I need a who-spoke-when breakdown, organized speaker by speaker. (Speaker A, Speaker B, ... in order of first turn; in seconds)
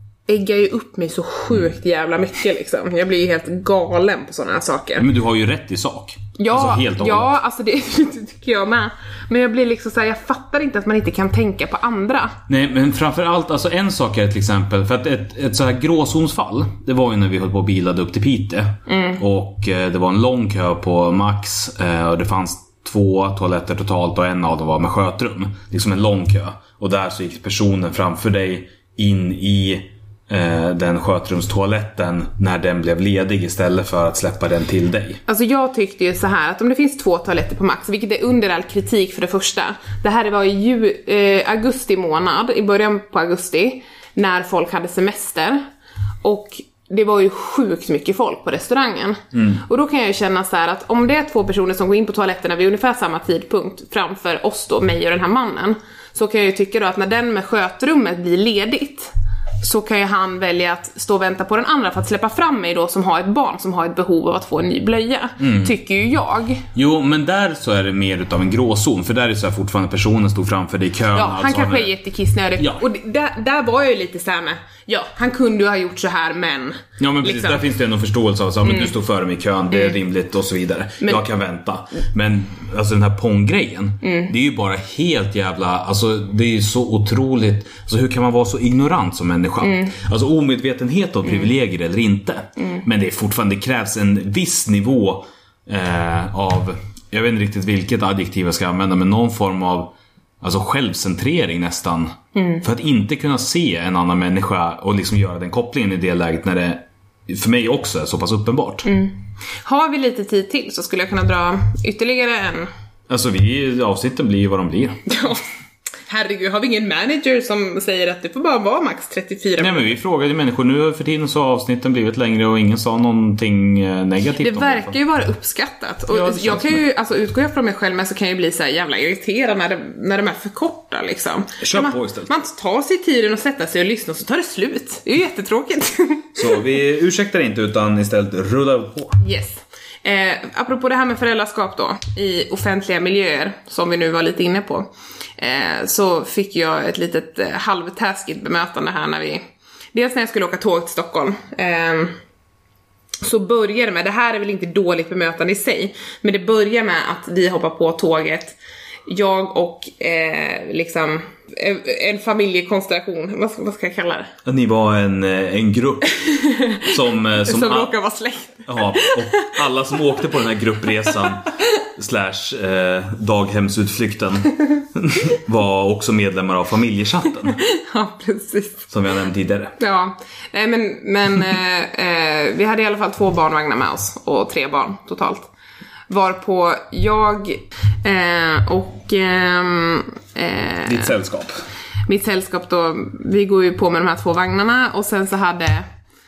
Speaker A: 0.3-5.0, 6.4-12.4, 18.9-19.2, 35.3-45.6, 46.2-66.7, 71.1-77.6, 84.0-84.3, 89.6-89.9, 102.3-102.6, 108.8-112.7, 115.1-115.4, 116.1-119.9, 124.4-136.6, 139.2-149.4, 149.9-152.2, 153.2-158.6, 159.1-164.3, 166.2-166.9, 167.4-169.6, 177.5-178.8, 179.8-185.5, 186.1-191.1, 192.1-195.9
Speaker B: 5.0-7.3, 12.5-35.2, 49.3-49.6, 65.4-65.7, 66.7-71.9, 72.6-72.8, 77.0-108.9, 113.1-115.0, 119.6-124.9, 126.1-126.8, 131.6-132.3, 136.3-139.2, 164.4-166.3, 166.8-167.9, 168.7-177.6, 178.9-179.7, 190.8-191.6